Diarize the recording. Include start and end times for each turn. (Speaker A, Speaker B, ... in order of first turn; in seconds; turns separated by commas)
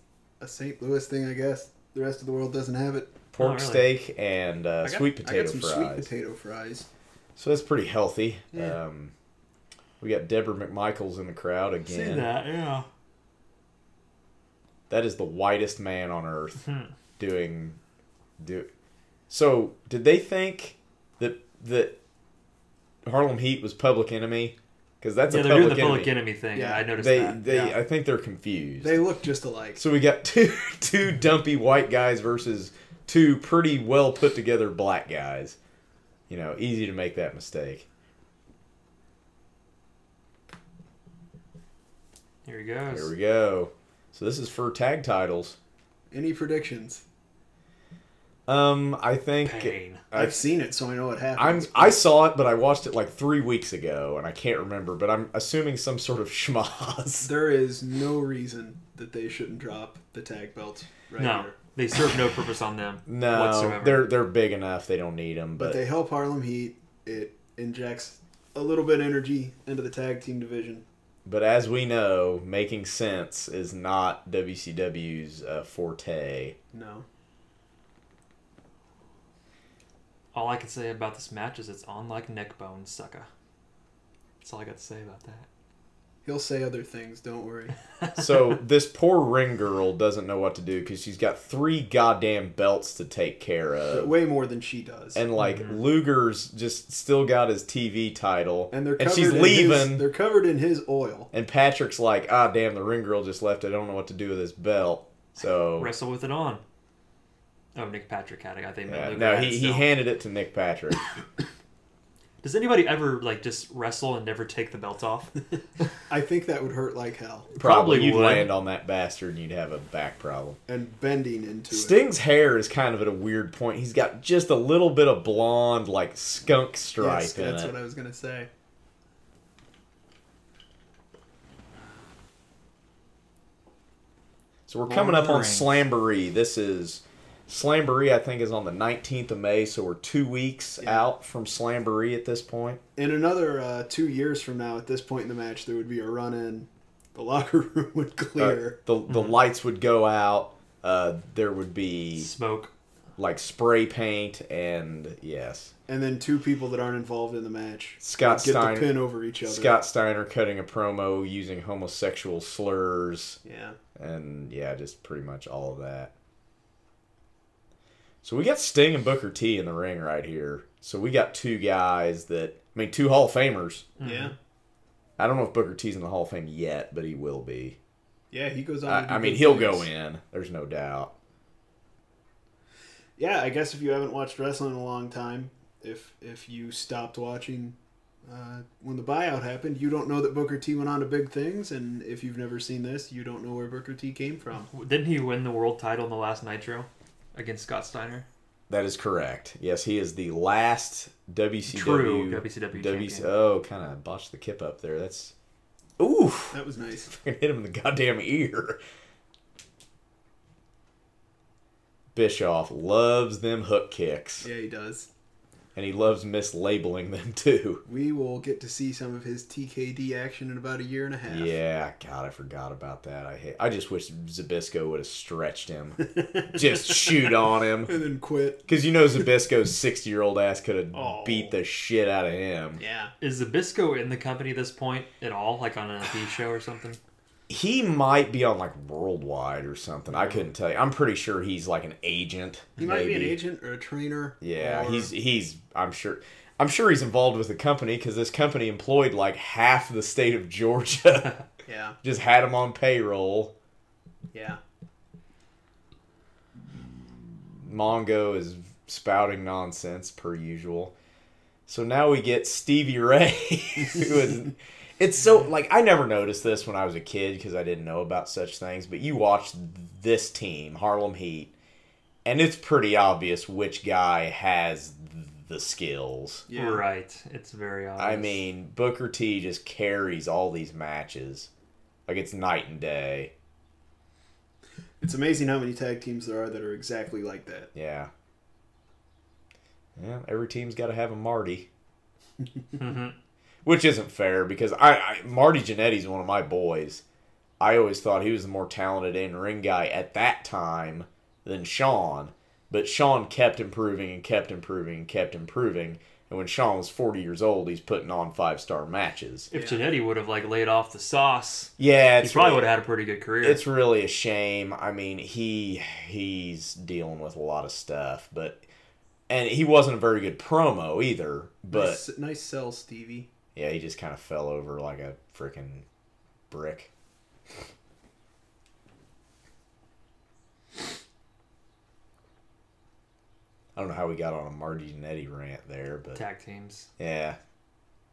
Speaker A: 0.4-3.1, Speaker B: 3.3-6.1, Speaker C: 3.4-3.9, Speaker A: 4.8-6.9, Speaker B: 7.4-9.1, Speaker B: 10.0-12.3, Speaker C: 11.8-12.9, Speaker B: 14.9-16.6, Speaker C: 16.6-16.9, Speaker B: 17.2-17.8, Speaker B: 18.4-18.7, Speaker B: 19.3-22.0, Speaker B: 23.1-26.1, Speaker C: 25.3-27.8, Speaker A: 26.5-26.9, Speaker B: 26.9-29.0, Speaker A: 28.8-29.8, Speaker B: 29.8-35.6, Speaker B: 36.3-37.9, Speaker C: 42.5-43.1, Speaker B: 42.9-45.6, Speaker A: 46.1-47.0, Speaker B: 48.5-50.4, Speaker C: 49.4-50.0, Speaker A: 50.1-52.0, Speaker B: 51.4-57.3, Speaker A: 57.2-61.6, Speaker C: 61.2-64.1, Speaker B: 63.1-65.8, Speaker A: 65.6-70.8, Speaker B: 71.2-76.6, Speaker A: 76.7-77.0, Speaker C: 80.3-83.3, Speaker C: 84.4-85.5, Speaker A: 86.2-87.8, Speaker B: 88.2-94.1, Speaker A: 93.9-95.2, Speaker B: 95.1-100.0, Speaker C: 95.4-95.8, Speaker A: 98.7-101.3, Speaker B: 101.3-105.9, Speaker C: 105.7-106.6, Speaker C: 107.8-109.9, Speaker B: 108.9-111.0, Speaker C: 112.4-115.3, Speaker A: 116.1-117.5, Speaker B: 117.5-120.6, Speaker C: 117.6-118.5, Speaker A: 120.7-122.0, Speaker B: 121.7-127.7, Speaker A: 127.0-128.5, Speaker B: 134.7-142.8, Speaker C: 134.9-135.8, Speaker A: 140.8-141.1, Speaker A: 143.0-148.8, Speaker B: 148.4-152.3, Speaker C: 149.1-149.4, Speaker C: 152.2-152.7, Speaker B: 153.2-155.7, Speaker A: 155.9-159.8, Speaker B: 158.0-158.9, Speaker B: 159.5-163.4, Speaker A: 163.4-163.8, Speaker B: 164.0-166.1, Speaker B: 168.2-173.9, Speaker C: 174.0-174.3, Speaker A: 174.0-174.3, Speaker B: 175.2-177.8, Speaker A: 178.3-179.9, Speaker B: 178.9-181.1, Speaker A: 183.2-187.8, Speaker A: 188.3-194.7, Speaker C: 194.7-198.3, Speaker B: 198.7-205.3, Speaker C: 201.7-203.3, Speaker B: 206.0-208.8, Speaker A: 206.5-207.1, Speaker B: 212.2-214.5, Speaker A: 214.4-215.1, Speaker B: 215.8-217.8, Speaker A: 217.9-221.6, Speaker B: 221.3-228.0, Speaker A: 226.0-228.7, Speaker B: 228.7-232.8, Speaker A: 230.9-231.6, Speaker A: 232.8-233.1, Speaker C: 233.2-237.0, Speaker B: 237.5-243.4, Speaker A: 242.8-245.1, Speaker B: 244.4-251.3, Speaker A: 251.7-252.0, Speaker B: 252.0-253.5, Speaker A: 254.3-254.6, Speaker B: 257.5-260.9, Speaker B: 261.7-271.5, Speaker B: 272.2-276.4, Speaker A: 276.5-276.8, Speaker C: 276.5-278.4, Speaker B: 278.0-281.5, Speaker B: 282.1-283.3, Speaker A: 285.0-287.7, Speaker B: 287.7-288.1, Speaker B: 290.0-291.7, Speaker C: 292.8-293.2, Speaker B: 293.6-297.0, Speaker B: 297.6-309.5, Speaker C: 309.5-313.6, Speaker A: 309.5-309.9, Speaker B: 311.8-312.7, Speaker B: 313.4-318.6, Speaker B: 319.3-322.0, Speaker A: 321.7-323.3, Speaker B: 323.6-325.9, Speaker B: 326.5-326.9, Speaker B: 333.8-336.2, Speaker C: 336.1-336.9, Speaker B: 337.0-337.4